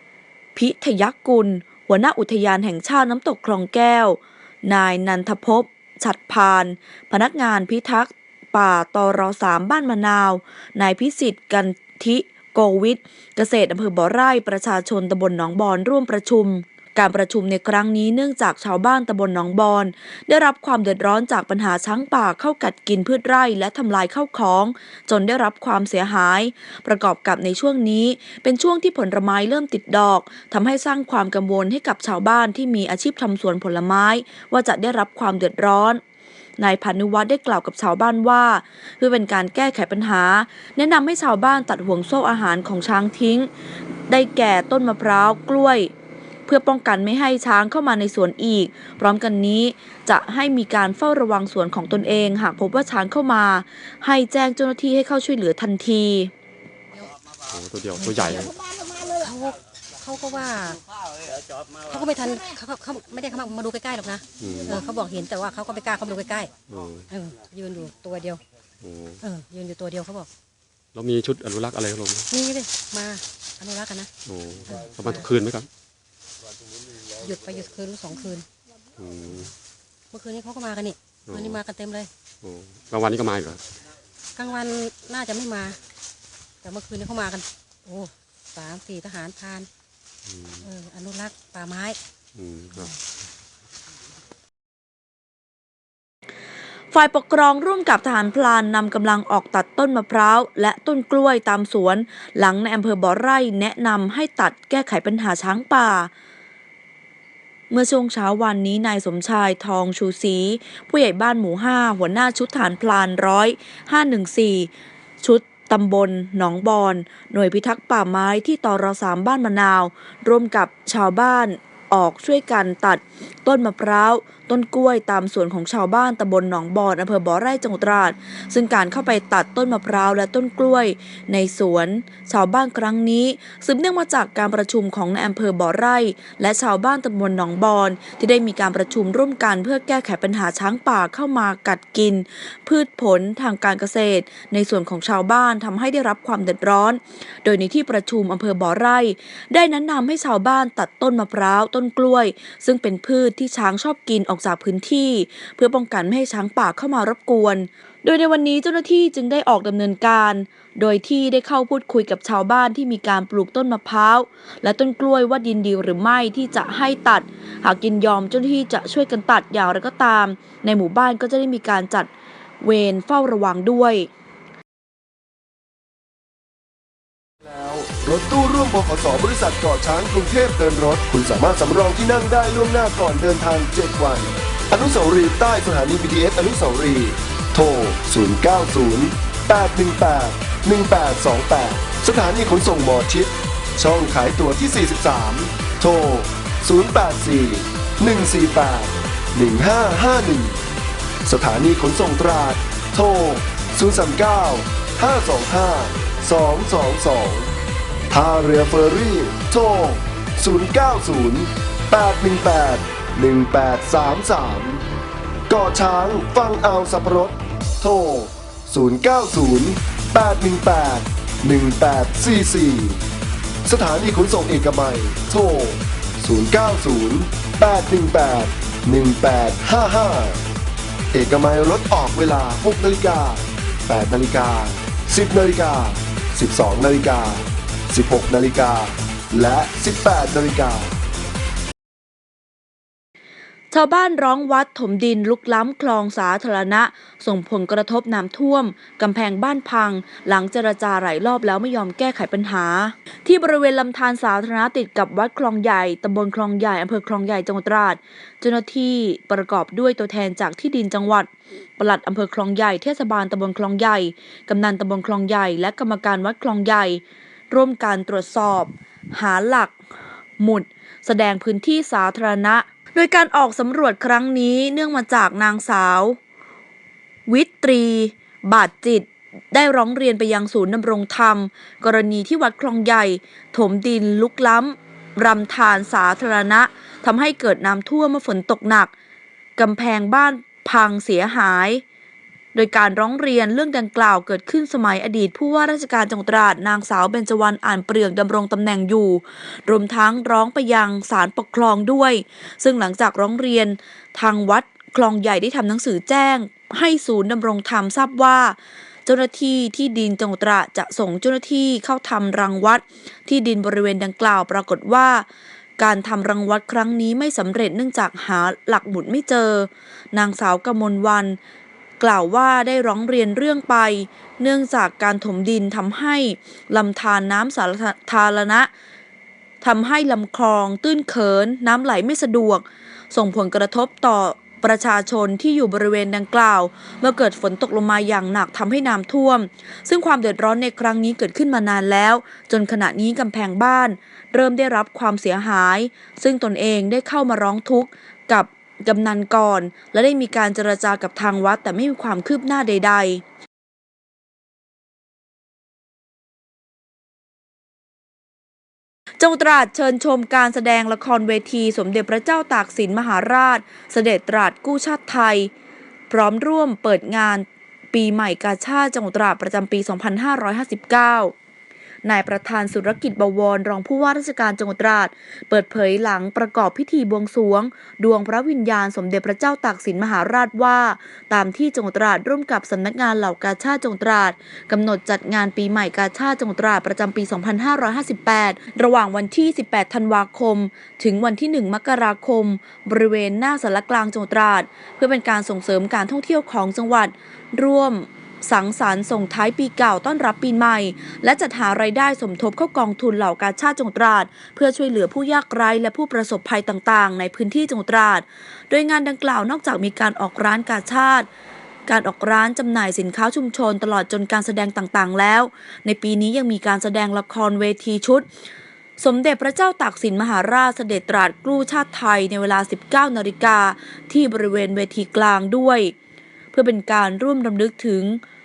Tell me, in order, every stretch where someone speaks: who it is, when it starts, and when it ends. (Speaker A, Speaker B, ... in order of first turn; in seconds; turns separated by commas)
Speaker A: 0.6-36.0, Speaker A: 36.6-43.5, Speaker A: 44.1-45.9, Speaker A: 46.5-56.3, Speaker B: 57.5-58.5, Speaker C: 58.0-60.8, Speaker C: 61.8-66.5, Speaker B: 66.7-67.0, Speaker C: 67.1-68.4, Speaker B: 68.8-69.2, Speaker C: 69.2-70.3, Speaker B: 70.9-72.0, Speaker C: 72.3-74.1, Speaker B: 74.2-75.7, Speaker C: 74.7-75.2, Speaker C: 77.2-78.5, Speaker B: 79.0-79.3, Speaker C: 80.1-82.1, Speaker B: 81.3-81.6, Speaker B: 82.4-83.6, Speaker C: 84.4-85.8, Speaker C: 86.6-89.7, Speaker C: 90.6-92.0, Speaker B: 92.3-92.9, Speaker A: 96.9-106.1, Speaker A: 107.7-114.7, Speaker A: 115.2-172.1, Speaker A: 172.6-174.1, Speaker D: 177.4-200.6, Speaker D: 201.2-207.5, Speaker D: 208.1-214.8, Speaker D: 215.5-223.0, Speaker D: 223.7-230.4, Speaker D: 231.1-241.0, Speaker A: 243.7-269.8, Speaker A: 270.4-276.2, Speaker A: 277.3-288.9, Speaker A: 289.6-291.8, Speaker A: 292.5-315.3, Speaker A: 315.8-321.4, Speaker A: 322.0-328.7, Speaker A: 329.6-353.2, Speaker A: 359.2-365.5, Speaker A: 366.1-371.3, Speaker A: 372.0-411.3, Speaker A: 411.9-418.3, Speaker A: 419.0-425.9, Speaker A: 426.5-428.2